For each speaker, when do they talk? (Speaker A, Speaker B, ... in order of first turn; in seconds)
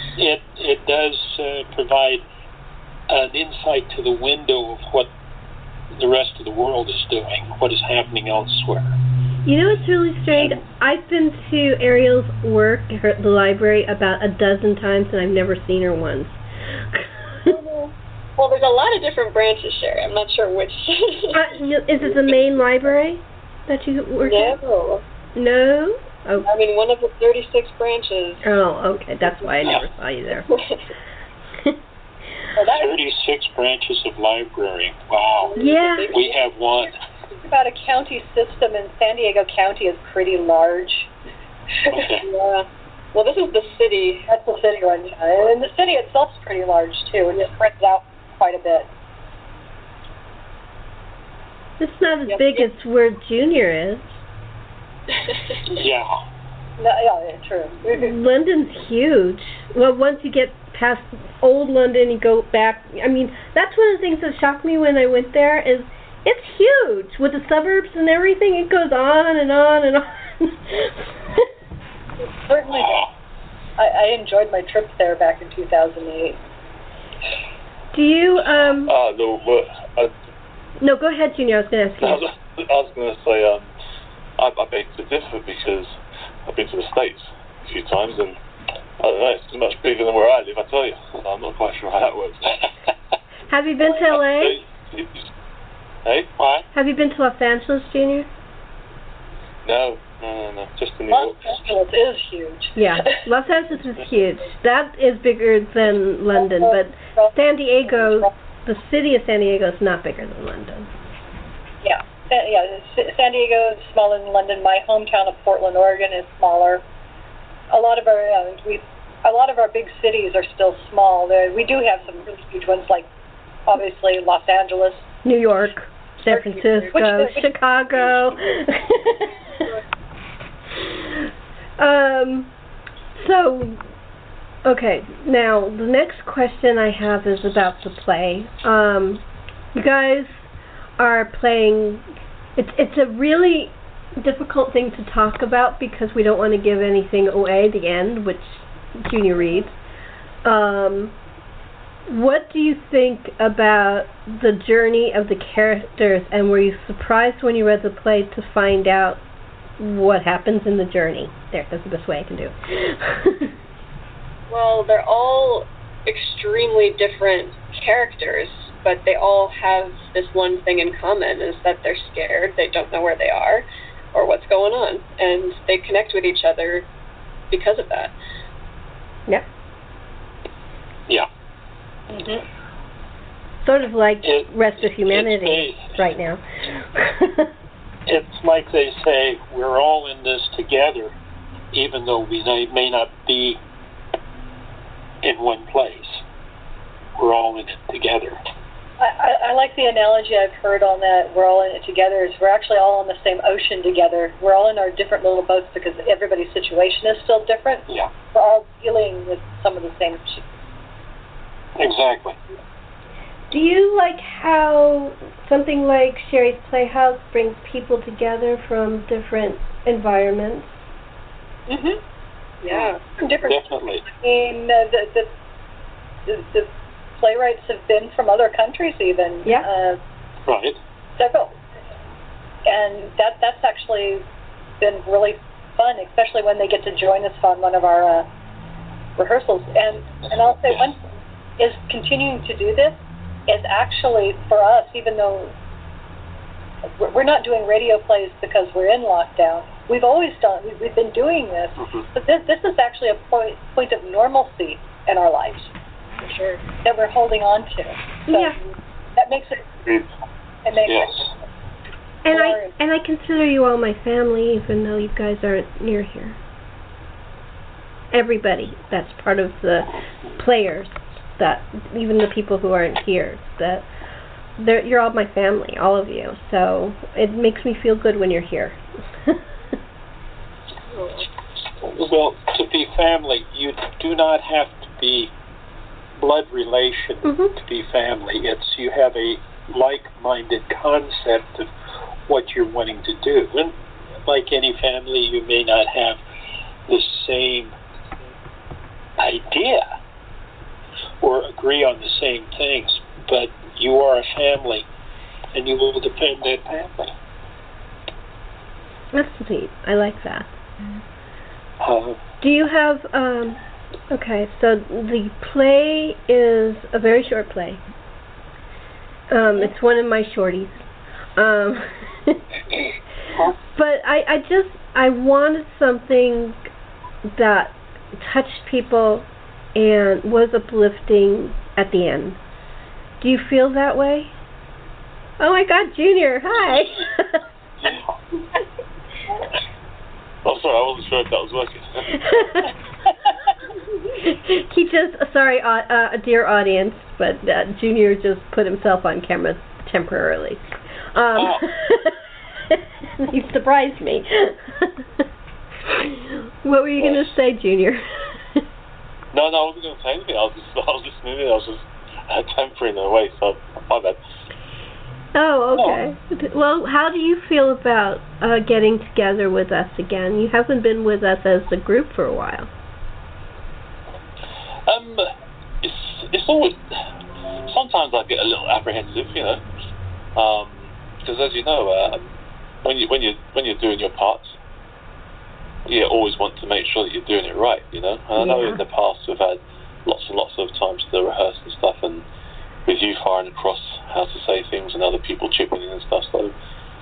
Speaker A: 0.1-2.2, 3.1-5.1, 5.9-9.0, 32.7-35.5, 36.1-37.0, 41.9-42.3, 55.7-56.1, 72.7-73.1, 96.4-96.7, 184.2-186.0, 188.1-191.1, 191.7-193.6, 195.2-196.2, 197.2-198.4, 211.8-212.4, 223.5-224.0, 230.4-230.8, 240.7-240.9, 260.9-261.3, 281.8-285.3, 286.2-291.7, 292.3-293.7, 294.2-296.2, 296.9-297.8, 299.2-299.9, 301.2-304.9, 305.5-307.1, 311.8-312.2, 351.3-351.6
Speaker B: 9.4-17.5, 21.3-24.6, 25.4-26.5, 28.4-30.5, 35.5-36.1, 51.8-54.2, 57.9-71.5, 77.9-78.9, 80.8-82.3, 93.5-94.6, 96.7-98.3, 102.8-110.9, 125.2-129.6, 131.8-132.5, 133.1-133.8, 134.6-139.2, 139.7-140.4, 141.0-142.0, 142.6-149.7, 150.4-151.1, 152.1-159.2, 159.8-163.5, 183.6-187.5, 213.5-220.7, 258.3-258.6, 262.2-266.4, 268.1-273.9, 274.6-279.4, 287.2-287.5, 309.1-310.5, 312.4-317.8, 319.3-320.8, 321.4-322.4, 323.7-326.7, 327.3-332.4, 333.2-334.3, 335.4-337.4, 342.1-342.7, 344.1-352.2, 352.7-355.1, 355.9-358.6, 365.3-372.7, 388.4-388.8
Speaker C: 17.5-21.5, 24.2-25.0, 26.4-28.5, 30.5-30.8, 35.4-36.4, 42.0-44.3, 52.3-52.7, 55.2-55.8, 164.5-176.9, 177.5-178.1, 221.7-222.0, 222.6-223.0, 256.2-256.6, 280.9-281.3
Speaker D: 32.5-33.0, 37.4-41.1, 44.3-48.9, 56.8-58.0, 72.4-73.0, 73.8-76.4, 101.1-103.1, 106.3-107.3, 107.8-108.3, 111.8-116.8, 117.7-123.1, 123.7-125.1, 126.3-127.4, 182.1-182.4, 199.0-210.4, 223.2-225.3, 226.2-230.0, 231.2-231.6, 232.7-234.2, 234.8-238.3, 239.2-241.1, 241.6-245.5, 247.0-255.7, 256.8-258.6, 259.1-259.7, 260.6-261.3, 262.2-262.7
Speaker E: 78.9-80.1, 82.0-83.7, 84.4-88.4, 89.0-92.7, 94.1-95.2, 96.0-96.3, 99.6-101.6, 340.4-342.3, 359.3-364.2, 374.9-375.3, 375.8-376.8, 377.6-379.6, 380.4-382.2, 382.8-384.6, 385.9-392.2, 392.9-396.5